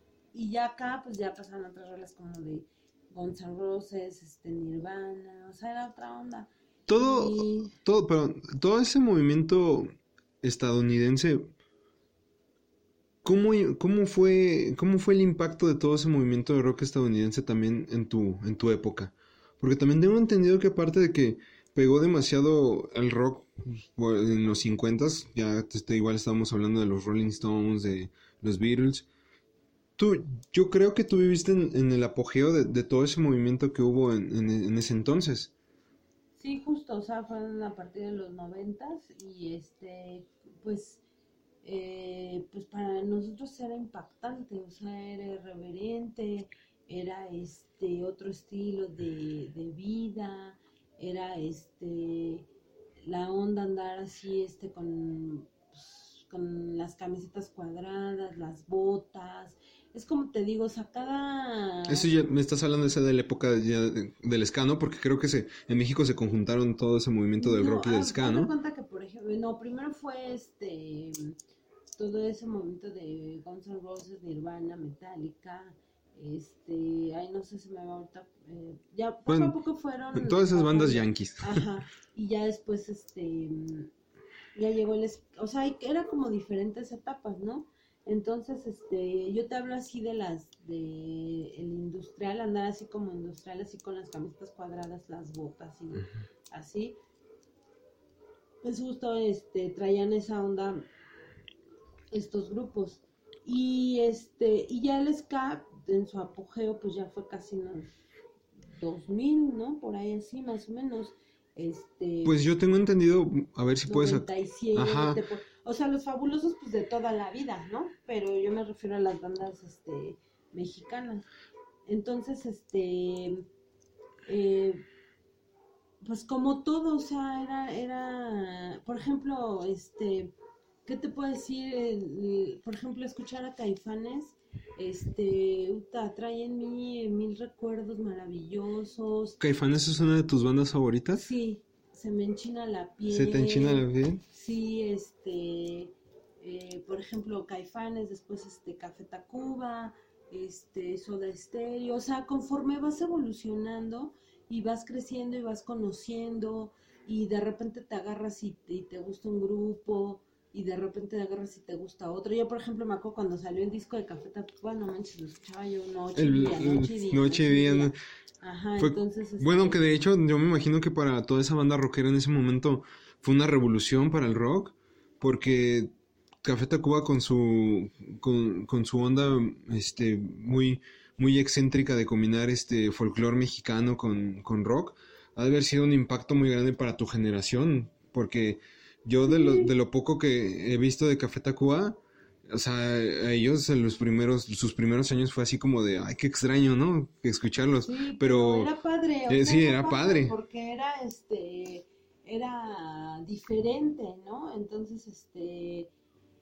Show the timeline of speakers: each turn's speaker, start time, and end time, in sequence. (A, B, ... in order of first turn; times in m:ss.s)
0:00.3-0:07.8 A
0:06.9-0:09.9 B
0:10.4-0:11.5 B
0:13.2-0:29.1 B
0:30.0-0:35.5 B
0:36.4-0:41.0 A
0:41.6-0:52.5 A
0:53.0-1:02.1 A
1:01.9-1:08.5 B
1:07.4-1:11.4 A
1:12.0-1:23.9 A
1:19.3-1:19.6 B
1:20.1-1:21.7 B
1:24.6-1:37.0 A
1:38.6-1:40.8 A
1:42.1-1:47.9 A
1:48.7-1:52.4 A
1:52.2-1:55.2 B
1:53.9-2:01.3 A
2:01.9-2:03.4 A
2:04.3-2:04.8 A
2:06.0-2:10.3 A
2:10.8-2:19.4 A
2:19.4-2:21.3 B
2:21.1-2:49.9 A
2:23.1-2:24.2 B
2:46.2-2:48.0 B
2:48.8-2:55.9 B
2:56.4-3:18.7 B
3:09.3-3:09.7 A
3:17.8-3:25.9 A
3:19.3-3:20.4 B